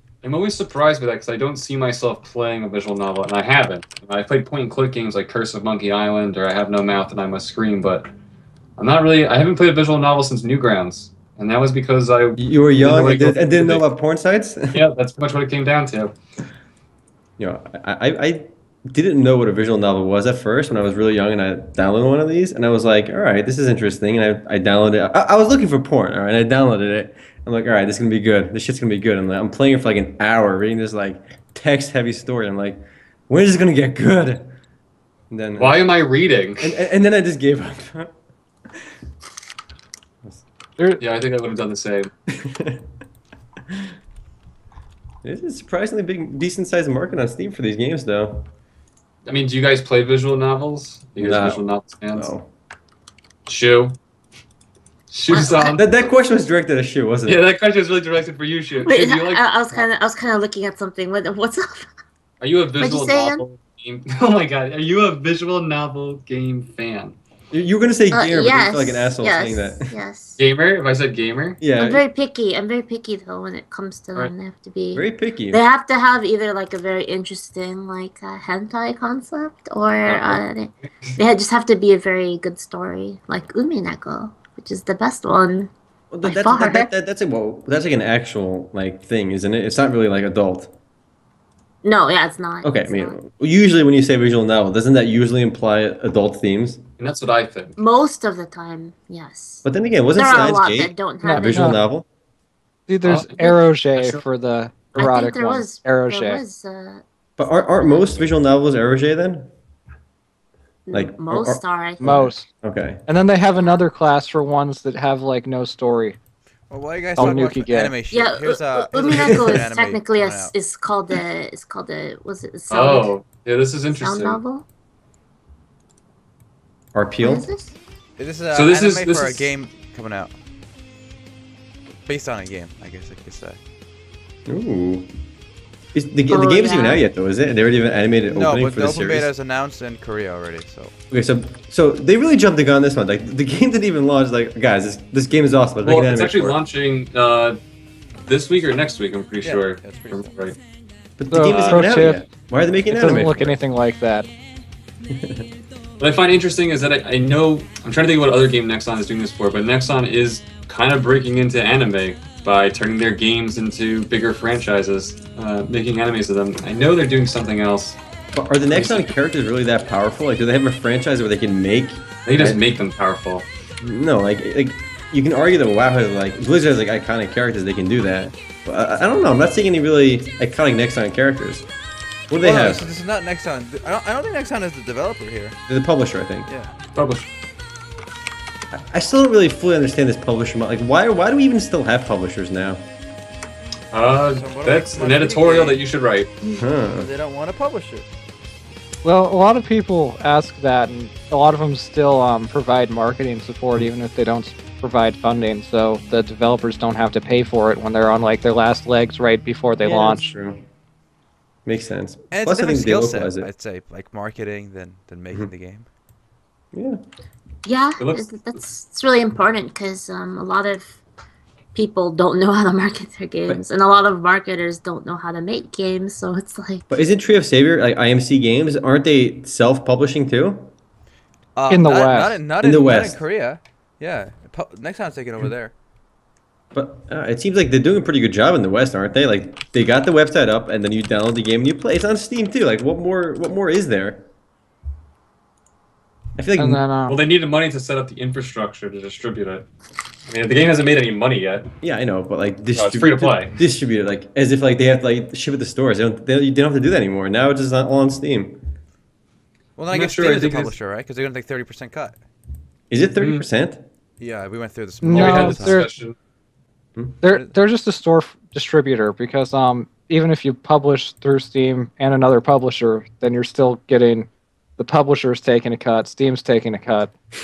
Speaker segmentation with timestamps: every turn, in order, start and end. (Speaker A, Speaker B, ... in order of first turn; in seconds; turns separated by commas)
Speaker A: 0.2-8.1, Speaker A: 8.8-13.8, Speaker B: 12.4-14.8, Speaker A: 14.7-16.1, Speaker B: 17.4-34.5, Speaker B: 35.3-35.9, Speaker A: 35.6-36.7, Speaker B: 36.6-38.1, Speaker A: 41.0-42.1, Speaker B: 42.3-42.8, Speaker B: 45.2-48.5, Speaker A: 49.2-52.3, Speaker B: 51.2-51.6, Speaker B: 52.1-52.5, Speaker A: 53.5-54.0, Speaker A: 55.1-55.9, Speaker C: 55.3-55.8, Speaker B: 55.6-57.5, Speaker A: 57.2-59.9, Speaker C: 58.8-61.9, Speaker A: 62.4-67.2, Speaker C: 62.8-63.4, Speaker B: 67.5-69.9, Speaker C: 68.1-70.4, Speaker A: 70.4-71.6, Speaker B: 71.6-72.0, Speaker C: 71.8-85.7, Speaker B: 74.9-75.6, Speaker A: 80.0-80.4, Speaker B: 86.1-90.7, Speaker C: 86.2-86.9, Speaker C: 91.8-93.2, Speaker B: 92.6-96.8, Speaker A: 97.0-97.8, Speaker C: 97.8-101.8, Speaker B: 99.6-102.0, Speaker D: 101.2-101.8, Speaker D: 102.9-106.4, Speaker A: 103.0-104.2, Speaker C: 105.0-108.2, Speaker B: 107.4-109.5, Speaker C: 110.9-112.2, Speaker B: 110.9-113.0, Speaker D: 112.0-112.5, Speaker D: 113.1-116.2, Speaker C: 113.6-113.8, Speaker E: 116.7-120.5, Speaker D: 117.2-118.0, Speaker C: 118.1-123.1, Speaker A: 122.7-124.4, Speaker C: 124.0-124.7, Speaker B: 126.9-127.5, Speaker C: 127.2-127.7, Speaker E: 128.2-130.3, Speaker A: 128.5-129.5, Speaker E: 132.1-133.6, Speaker B: 134.5-135.1, Speaker B: 135.9-139.3, Speaker C: 136.3-137.0, Speaker E: 138.3-140.9, Speaker B: 141.1-146.6, Speaker A: 145.8-147.6, Speaker A: 148.3-150.6, Speaker E: 149.4-150.3, Speaker B: 151.2-153.6, Speaker D: 151.3-152.2, Speaker A: 151.4-151.8, Speaker D: 152.9-154.3, Speaker B: 155.1-155.5, Speaker A: 156.0-168.0, Speaker B: 168.3-172.6, Speaker A: 168.7-169.1, Speaker A: 172.2-173.5, Speaker B: 173.8-181.7, Speaker B: 182.3-182.8, Speaker E: 182.4-185.6, Speaker B: 185.7-186.5, Speaker E: 186.5-186.7, Speaker A: 186.9-187.3, Speaker B: 188.7-192.8, Speaker A: 193.9-196.3, Speaker E: 194.3-195.8, Speaker B: 196.5-197.1, Speaker E: 196.9-198.1, Speaker D: 199.0-210.3, Speaker B: 209.8-210.6, Speaker B: 211.6-213.5, Speaker E: 212.3-215.9, Speaker B: 216.7-217.0, Speaker C: 217.6-221.0, Speaker A: 218.0-218.4, Speaker C: 221.7-226.8, Speaker B: 226.9-230.7, Speaker E: 231.6-235.7, Speaker D: 231.7-232.4, Speaker B: 232.6-233.2, Speaker B: 236.7-244.2, Speaker B: 246.4-246.8, Speaker D: 246.6-247.2, Speaker A: 247.1-249.7, Speaker A: 250.3-251.7, Speaker B: 251.8-258.6, Speaker A: 252.7-253.6, Speaker E: 259.8-262.2, Speaker A: 259.9-260.7, Speaker B: 262.9-263.8, Speaker A: 263.2-263.4, Speaker E: 264.2-265.8, Speaker D: 265.0-265.9, Speaker A: 265.1-266.1, Speaker D: 267.2-277.1